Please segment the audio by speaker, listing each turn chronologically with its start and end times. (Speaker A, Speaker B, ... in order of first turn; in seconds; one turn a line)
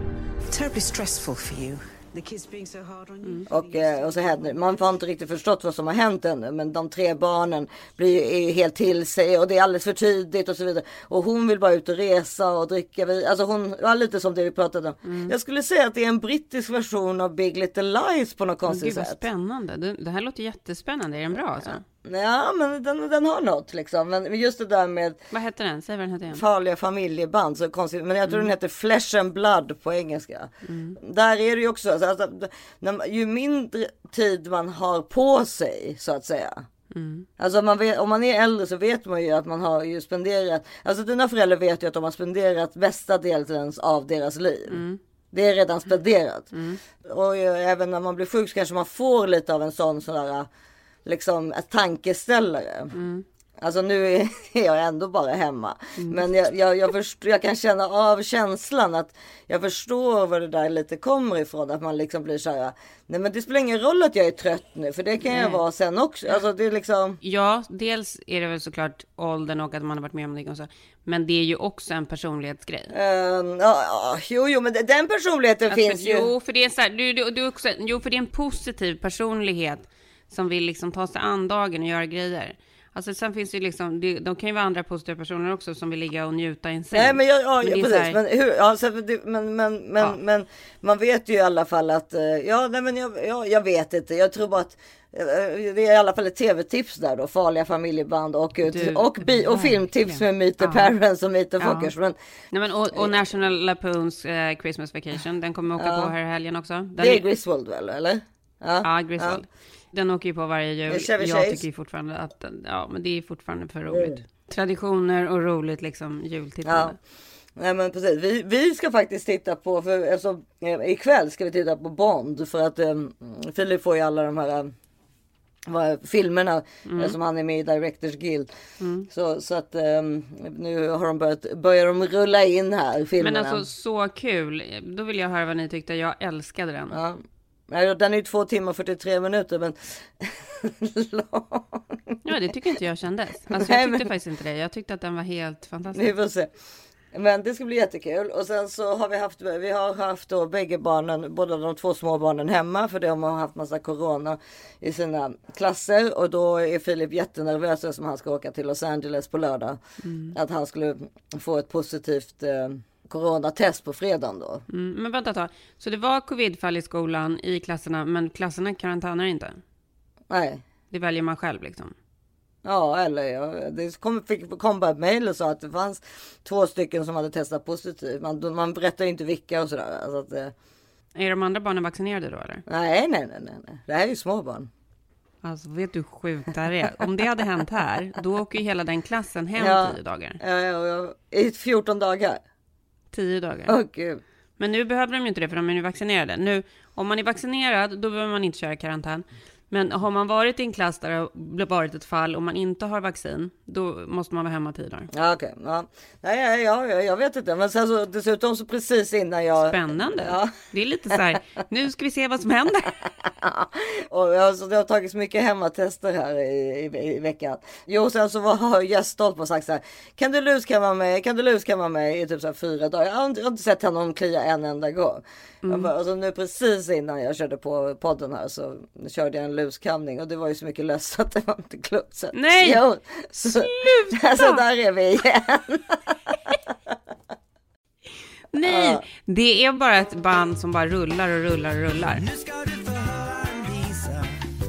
Speaker A: 0.5-4.6
Speaker B: 3.5-19.2
Speaker C: 15.0-15.3
Speaker C: 18.7-21.8
Speaker B: 21.9-25.2
Speaker C: 25.3-26.4
Speaker B: 26.3-36.6
Speaker C: 30.6-31.0
Speaker C: 36.9-37.3
Speaker B: 37.4-46.5
Speaker C: 44.7-45.0
Speaker C: 46.5-46.8
Speaker B: 47.0-50.5
Speaker B: 51.0-52.9
Speaker C: 52.9-53.2
Speaker B: 53.6-67.2
Speaker C: 56.0-56.2
Speaker C: 65.2-65.6
Speaker C: 67.2-72.9
Speaker B: 72.9-76.3
Speaker C: 75.7-88.2
Speaker B: 86.9-102.2
Speaker C: 98.7-100.9
Speaker C: 101.6-101.9
Speaker C: 102.5-107.3
Speaker B: 105.8-106.1
Speaker B: 107.0-109.4
Speaker C: 108.8-117.0
Speaker B: 110.9-111.6
Speaker B: 113.9-114.2
Speaker B: 116.7-117.0
Speaker B: 117.6-124.7
Speaker B: 125.7-128.5
Speaker C: 126.8-127.2
Speaker C: 128.8-129.1
Speaker B: 129.1-133.7
Speaker C: 133.2-137.0
Speaker B: 136.9-142.2
Speaker C: 142.2-146.1
Speaker B: 143.5-144.1
Speaker B: 145.9-146.5
Speaker B: 147.1-159.8
Speaker C: 160.0-160.3
Speaker B: 160.3-164.6
Speaker C: 164.7-169.6
Speaker B: 170.3-170.6
Speaker C: 170.9-171.9
Speaker B: 172.7-180.5
Speaker C: 181.2-182.6
Speaker B: 182.7-184.7
Speaker C: 185.4-190.4
Speaker B: 189.6-192.4
Speaker C: 193.1-193.8
Speaker B: 193.7-194.2
Speaker C: 194.6-205.1
Speaker B: 205.1-210.5
Speaker C: 209.6-213.0
Speaker B: 213.2-236.2
Speaker C: 225.6-225.9
Speaker C: 232.3-232.8
Speaker C: 233.4-234.6
Speaker C: 238.5-242.2
Speaker B: 238.6-239.0
Speaker A: 242.2-244.4